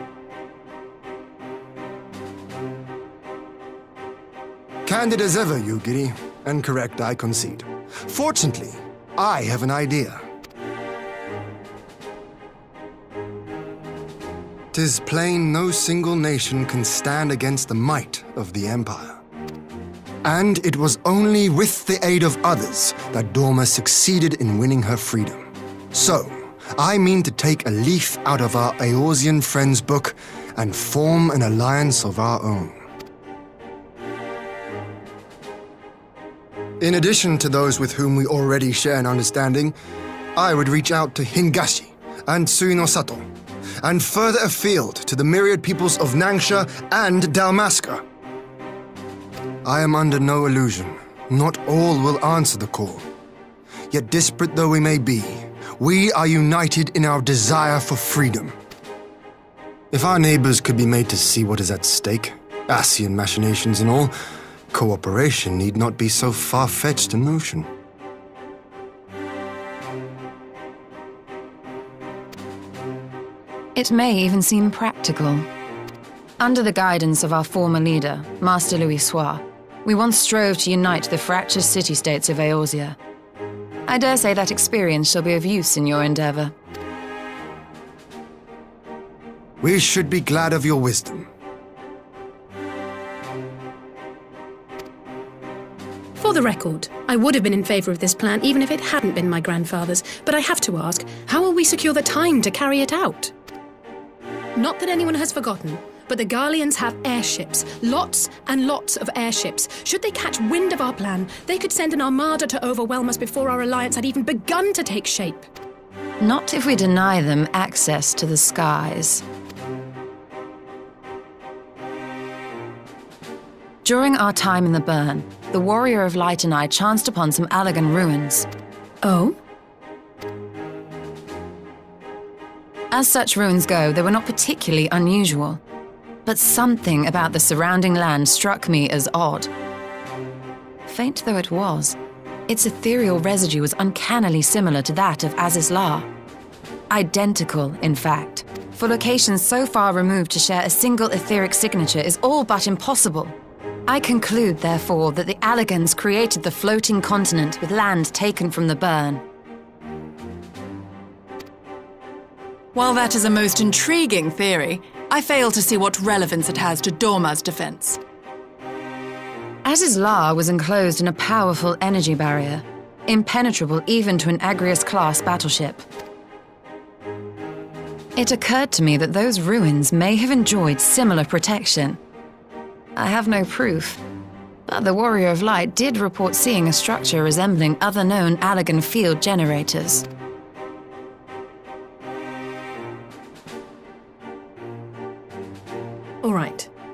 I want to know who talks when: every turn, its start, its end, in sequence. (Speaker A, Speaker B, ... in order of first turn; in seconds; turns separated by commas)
Speaker A: 4.9-10.2, Speaker A: 14.7-19.2, Speaker A: 20.2-32.8, Speaker A: 36.8-39.8, Speaker A: 40.4-43.3, Speaker A: 43.8-48.0, Speaker A: 49.6-53.1, Speaker A: 53.9-58.6, Speaker A: 59.9-64.1, Speaker A: 64.7-67.7, Speaker B: 73.8-75.5, Speaker B: 76.4-83.0, Speaker B: 83.9-86.5, Speaker A: 89.6-91.3, Speaker C: 96.2-103.3, Speaker C: 104.6-115.5, Speaker B: 116.2-119.2, Speaker B: 123.8-128.5, Speaker C: 129.0-129.4, Speaker B: 132.9-135.6, Speaker B: 136.2-139.5, Speaker B: 140.8-142.0, Speaker B: 142.5-146.1, Speaker B: 146.9-153.3, Speaker B: 153.9-159.2, Speaker D: 162.7-168.0, Speaker B: 169.6-175.8, Speaker B: 178.2-182.0, Speaker B: 182.9-184.0, Speaker B: 184.7-190.1, Speaker C: 196.2-196.7